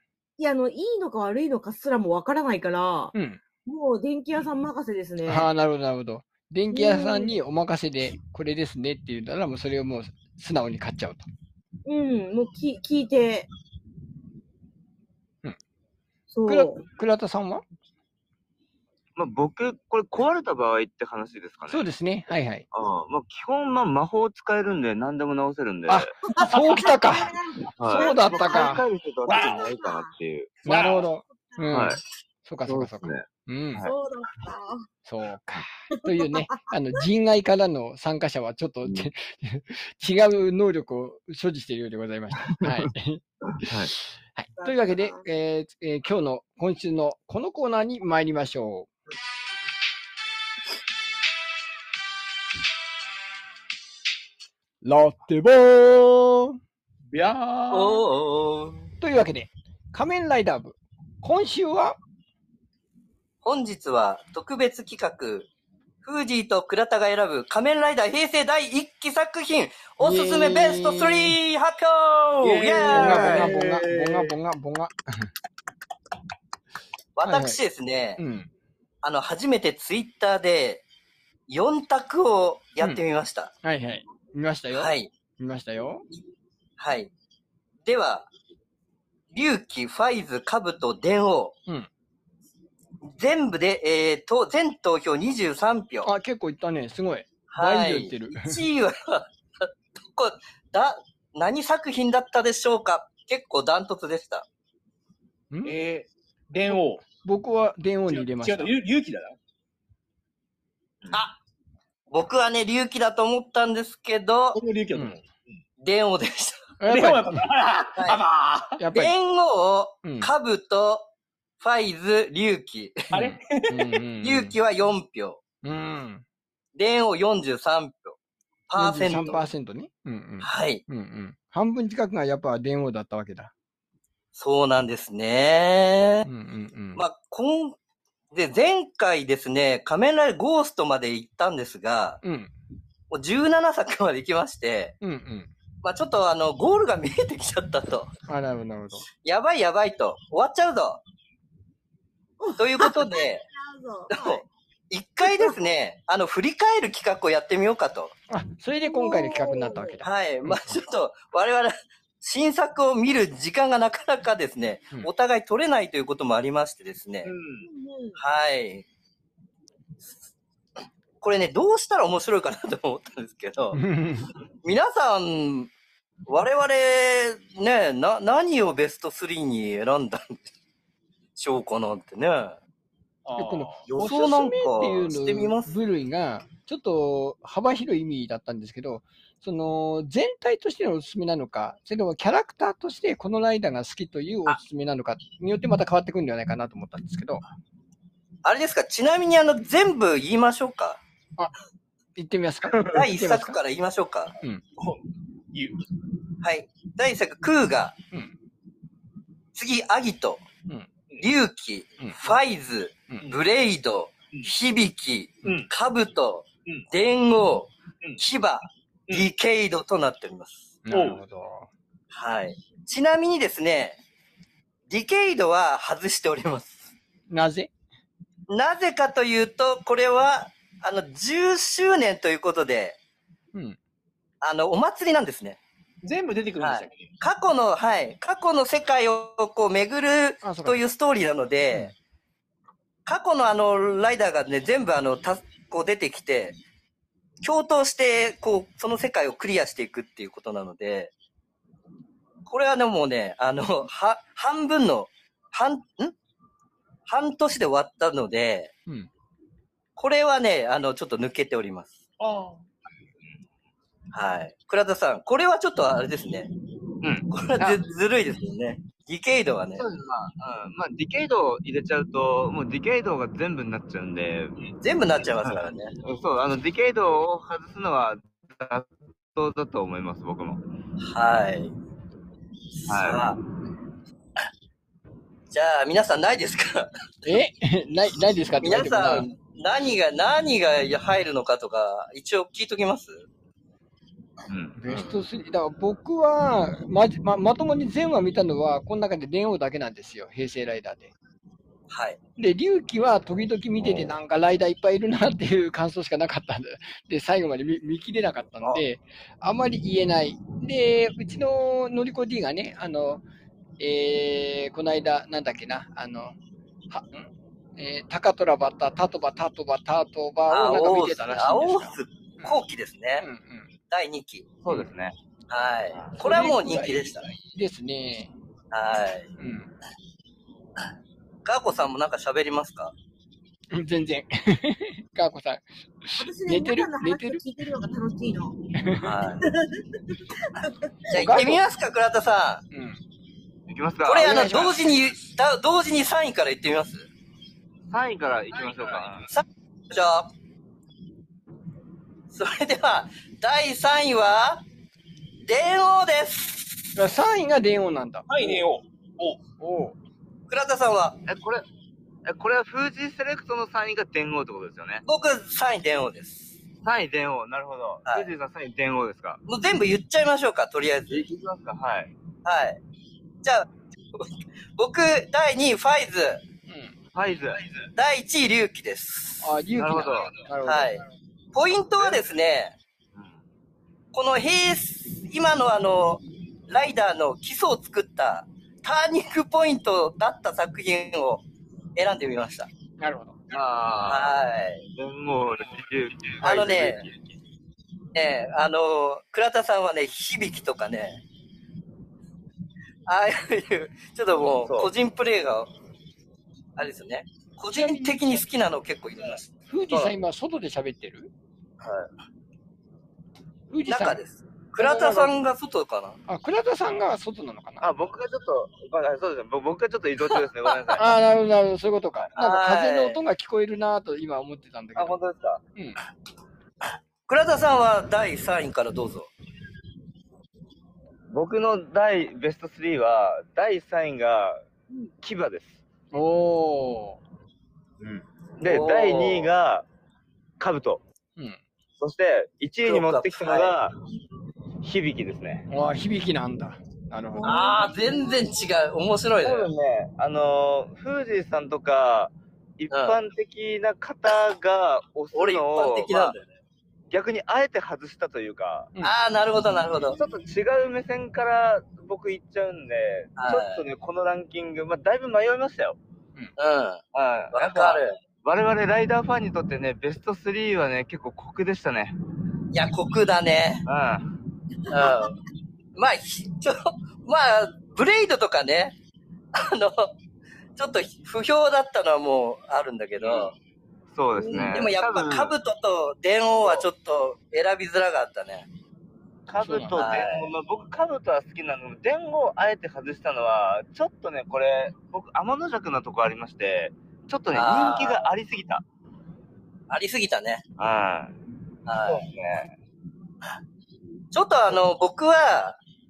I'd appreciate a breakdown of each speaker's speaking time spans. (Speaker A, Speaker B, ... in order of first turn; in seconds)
Speaker A: 0.4-3.1, 3.6-5.5, 6.7-7.4, 11.9-13.5, 16.3-16.8, 26.4-30.1, 33.8-34.9, 44.6-45.2, 152.4-154.4, 155.2-155.6, 158.8-160.0, 167.6-168.2, 336.2-338.6, 339.5-339.8, 447.4-448.4, 484.4-484.7
Speaker B: 3.1-3.4, 5.3-11.3, 16.5-17.6, 21.7-22.7, 25.9-28.9, 30.6-33.9, 35.1-48.9, 54.8-56.6, 59.0-62.0, 70.0-71.4, 72.9-75.3, 77.2-77.6, 78.2-78.5, 83.6-86.0, 96.0-98.6, 105.5-105.8, 106.7-108.7, 116.8-117.5, 118.8-119.1, 120.0-120.3, 123.1-124.6, 125.6-126.2, 128.8-133.5, 136.3-137.0, 142.2-142.5, 145.0-145.5, 148.2-149.1, 158.3-160.8, 173.7-174.3, 183.3-197.4, 202.2-203.6, 220.8-221.7, 227.3-227.7, 240.4-240.8, 287.2-289.3, 294.8-301.1, 302.4-313.2, 313.8-316.4, 316.9-322.6, 323.2-323.7, 326.2-328.3, 329.4-329.7, 333.7-337.4, 338.8-339.2, 341.1-341.6, 342.7-343.0, 344.2-344.8, 357.0-358.6, 359.6-359.9, 376.7-376.9, 379.4-381.0, 393.0-393.4, 407.7-408.2, 409.7-411.3, 413.7-414.2, 414.8-415.3, 416.3-417.9, 420.9-425.2, 436.1-437.2, 445.7-447.6, 489.6-490.0
Speaker C: 19.2-21.9, 22.7-26.1, 27.8-30.6, 31.7-32.0, 32.7-33.9, 38.8-39.1, 42.4-42.9, 43.5-43.9, 73.0-74.3, 267.0-267.8, 269.8-274.6, 275.4-280.6, 282.9-283.3, 294.5-294.8, 324.6-325.1, 343.7-344.9, 347.9-349.3, 361.3-361.6, 362.2-365.0, 366.8-369.4, 371.1-372.1, 377.1-377.9, 379.8-380.4, 393.5-397.2, 404.6-404.9, 409.9-410.1, 417.8-421.1, 425.0-425.6, 431.3-434.6, 435.2-435.8, 438.0-439.9, 440.6-441.0, 442.0-443.9, 444.8-445.7, 449.4-456.4, 457.1-458.9, 460.1-466.0, 467.1-472.1, 473.9-474.3, 483.2-483.5, 484.1-485.5, 489.5-498.8, 500.8-501.3, 501.9-502.7
Speaker D: 26.5-26.9, 29.3-29.6, 30.7-31.1, 57.1-58.0, 105.6-107.0, 108.1-109.4, 114.5-115.2, 116.9-118.8, 123.1-124.0, 167.3-167.7, 183.2-183.8, 205.5-205.8, 220.9-221.2, 236.0-237.0, 262.2-262.6, 358.3-359.4
Speaker E: 57.7-58.9, 63.4-65.5, 66.0-73.5, 77.2-78.2, 79.0-80.8, 81.5-83.5, 84.7-85.1, 86.8-87.1, 87.8-88.3, 89.3-91.6, 93.0-96.1, 97.5-104.5, 111.1-111.4, 112.1-114.6, 115.8-116.7, 118.0-118.2, 118.9-121.1, 121.6-123.0, 124.2-125.4, 126.8-128.2, 128.7-129.4, 130.4-130.8, 134.3-136.3, 137.0-137.8, 138.3-142.2, 143.1-144.9, 145.8-148.1, 149.2-151.0, 152.6-153.4, 154.1-158.1, 160.0-167.3, 168.2-168.8, 171.2-173.8, 174.6-175.7, 176.3-180.5, 181.4-182.6, 183.9-185.7, 198.4-201.0, 202.9-204.3, 206.4-208.0, 209.5-210.4, 211.2-220.8, 222.1-224.0, 224.9-226.9, 228.5-233.0, 234.4-235.6, 236.6-241.9, 243.1-246.6, 247.4-251.1, 252.5-256.1, 257.1-258.7, 260.0-262.0, 264.1-266.5, 267.3-269.9, 274.8-275.9, 281.0-281.7, 282.8-283.4, 285.5-286.9, 288.6-293.3, 294.9-295.2, 301.9-302.2, 320.5-323.3, 323.9-324.5, 325.5-327.3, 328.7-329.3, 331.4-332.9, 339.0-339.4, 341.1-342.6, 344.1-347.1, 349.3-350.3, 352.3-354.6, 355.5-356.9, 360.5-361.2, 365.1-366.5, 369.5-371.3, 372.4-372.8, 373.4-374.2, 374.8-376.4, 378.0-379.5, 380.6-382.8, 384.1-391.4, 392.0-392.7, 394.1-394.8, 396.4-397.1, 398.1-401.2, 403.1-405.7, 406.8-409.5, 413.9-416.2, 422.4-423.2, 427.3-429.3, 438.6-439.5, 442.8-443.8, 447.4-449.7, 452.9-453.2, 455.3-456.5, 459.0-460.2, 463.4-463.8, 466.6-467.0, 467.5-468.2, 472.7-473.9, 474.9-475.4, 476.0-478.9, 479.6-480.1, 480.8-483.5, 484.6-488.7, 490.0-490.5, 497.5-498.2, 499.9-500.6, 501.9-502.3, 504.3-505.8